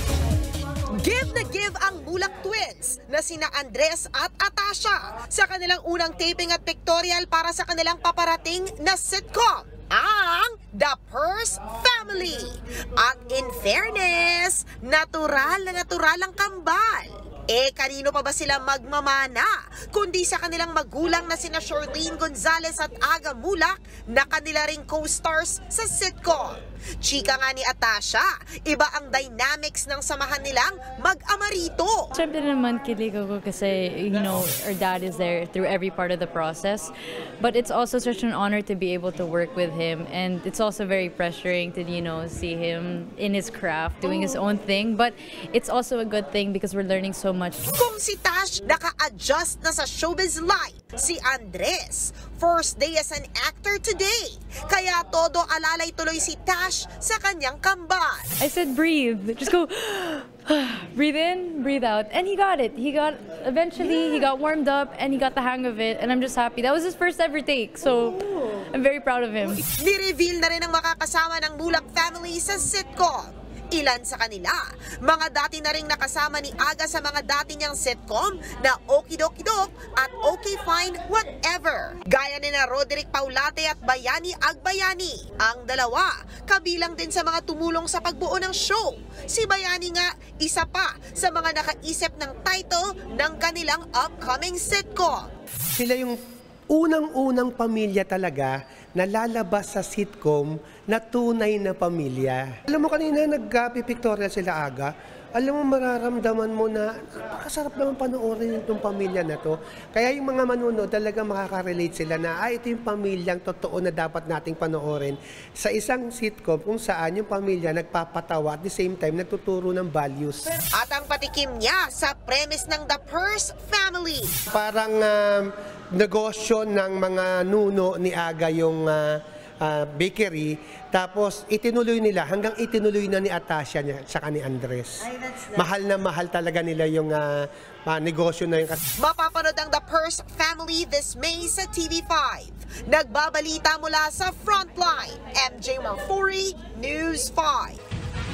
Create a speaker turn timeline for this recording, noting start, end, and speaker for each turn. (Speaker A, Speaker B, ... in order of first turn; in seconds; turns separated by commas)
Speaker A: 0.9-32.1, Speaker B: 32.1-47.7, Speaker A: 47.7-58.3, Speaker B: 58.4-69.6, Speaker A: 69.6-95.3, Speaker C: 95.8-96.2, Speaker C: 96.7-120.6, Speaker A: 120.7-124.4, Speaker C: 124.5-138.8, Speaker A: 139.0-147.8